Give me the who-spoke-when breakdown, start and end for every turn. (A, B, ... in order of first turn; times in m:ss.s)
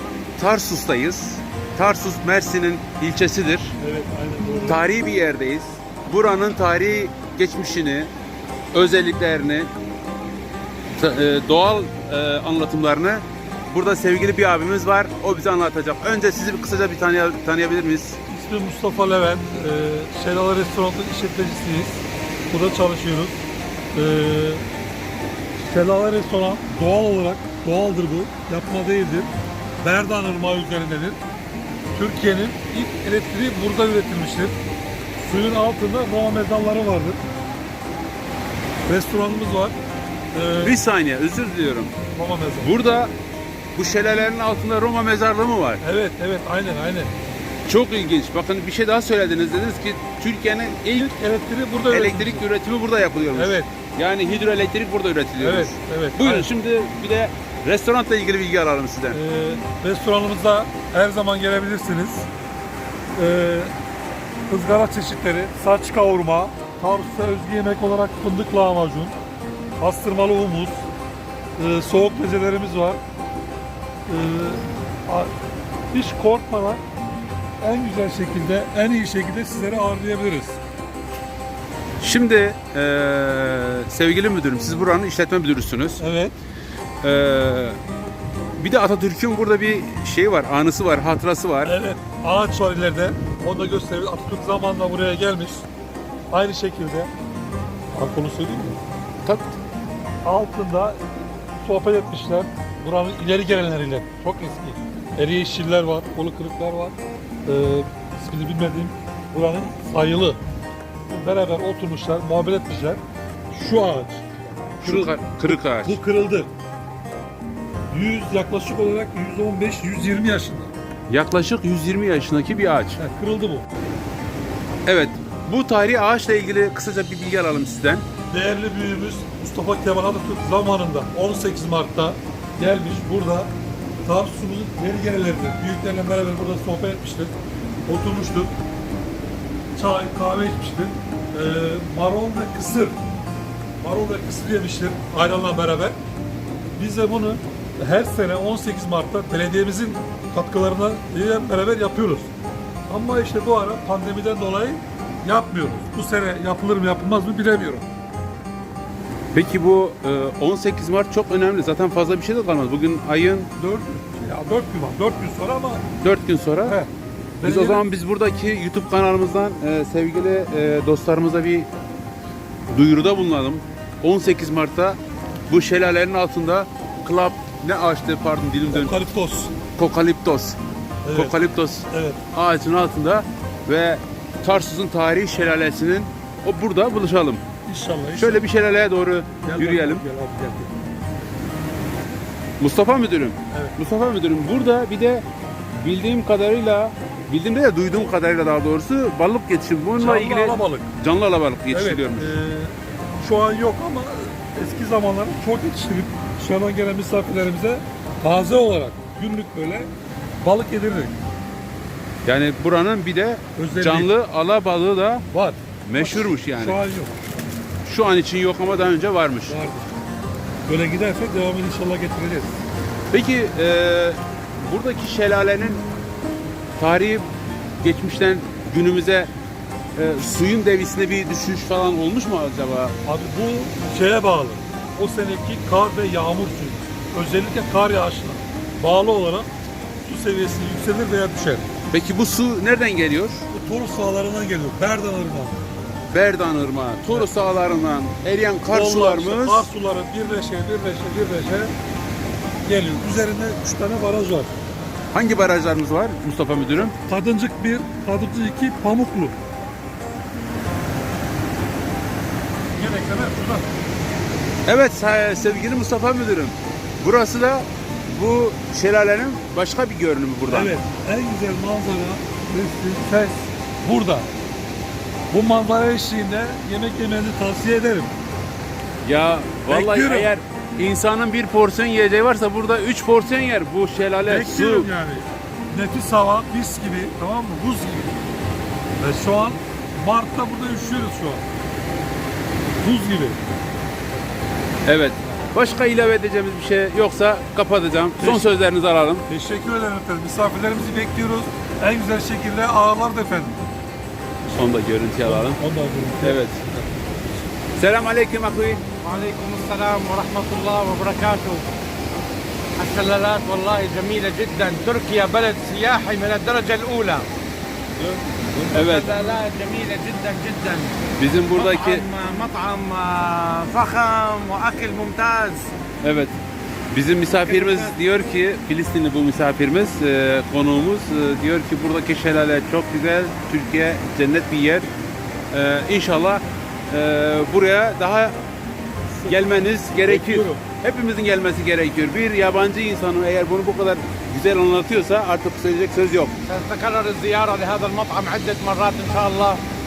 0:00.4-0:03.8 A
0:03.8-0:04.9 B
0:04.6-0:08.1 A
0:08.7-0:09.7 A
0:11.0-0:18.2 A
0:18.3-0:23.3 B
0:23.9-0:24.6 B
0:25.6-0:29.3 B
0:29.8-0:31.2 B
0:31.9-0:34.6 B
0:35.2-0:37.2 B
0:38.9-0:39.8 B
0:40.3-0:40.8 B
0:40.6-0:41.9 A
0:42.1-0:42.7 B
0:42.6-0:43.1 A
0:43.7-0:45.8 A
0:45.8-0:47.1 B
0:47.6-0:51.1 A
0:50.9-0:52.4 B
0:51.9-0:59.2 A
0:53.3-0:53.7 B
0:55.4-0:56.5 B
0:59.1-1:02.3 B
1:03.2-1:03.7 B
1:04.5-1:09.1 B
1:09.8-1:10.8 B
1:11.6-1:13.0 B
1:14.1-1:15.3 B
1:15.9-1:16.8 B
1:17.6-1:20.6 B
1:22.0-1:26.0 A
1:26.0-1:26.3 B
1:27.0-1:27.8 A
1:28.6-1:31.7 A
1:31.6-1:35.6 B
1:36.3-1:37.1 B
1:37.9-1:38.8 B
1:39.2-1:39.6 A
1:40.2-1:41.0 B
1:41.6-1:50.4 B
1:51.1-1:53.0 B
1:53.5-1:54.3 B
1:54.8-1:56.0 A
1:54.8-1:56.5 B
1:57.9-2:00.7 B
2:01.1-2:03.0 A
2:03.0-2:03.6 B
2:04.8-2:08.0 A
2:08.3-2:13.5 B
2:14.0-2:17.3 B
2:17.8-2:18.5 B
2:19.7-2:23.0 B
2:23.8-2:26.0 B
2:26.8-2:32.3 B
2:32.9-2:37.8 B
2:39.3-2:43.5 A
2:43.6-2:45.8 B
2:46.0-2:46.8 A
2:46.6-2:47.8 B
2:47.4-2:51.7 A
2:52.7-2:55.0 A
2:55.5-2:59.0 A
2:58.7-2:59.6 B
2:59.7-3:00.6 A
3:01.0-3:02.2 B
3:01.1-3:07.4 A
3:07.6-3:08.4 B
3:08.1-3:10.0 A
3:09.4-3:10.8 B
3:12.6-3:15.2 A
3:13.5-3:13.8 B
3:15.8-3:22.3 A
3:20.0-3:20.9 B
3:21.7-3:29.9 B
3:30.4-3:31.2 B
3:32.2-3:35.2 A
3:33.6-3:34.1 B
3:35.3-3:37.1 B
3:35.8-3:36.8 A
3:37.8-3:39.6 A
3:39.4-3:39.9 B
3:40.6-3:42.6 B
3:43.1-3:45.8 A
3:46.8-3:47.3 A
3:47.8-3:49.3 A
3:50.0-3:53.0 A
3:53.0-3:59.5 B
4:00.0-4:01.7 B
4:01.9-4:03.4 A
4:03.5-4:05.6 B
4:06.1-4:09.7 A
4:07.0-4:07.3 B
4:08.7-4:11.7 B
4:12.6-4:14.5 B
4:15.1-4:16.9 A
4:17.0-4:19.4 B
4:22.7-4:23.7 B
4:24.6-4:30.7 A
4:30.5-4:34.3 B
4:35.3-4:38.1 B
4:39.0-4:44.9 A
4:39.7-4:40.3 B
4:44.2-4:48.2 B
4:49.0-4:51.4 B
4:52.8-4:53.4 B
4:54.8-4:59.2 A
4:58.2-4:58.6 B
4:59.3-5:03.6 B
5:04.5-5:05.6 A
5:05.2-5:07.2 B
5:06.2-5:06.6 A
5:07.8-5:08.8 A
5:09.0-5:11.7 C
5:12.8-5:17.3 C
5:18.0-5:19.4 A
5:18.7-5:21.0 C
5:21.2-5:22.0 A
5:21.5-5:25.7 C
5:26.0-5:26.3 A
5:26.9-5:34.9 A
5:27.4-5:27.9 C
5:35.5-5:38.4 A
5:39.2-5:40.6 B
5:39.2-5:46.3 A
5:46.5-5:49.6 C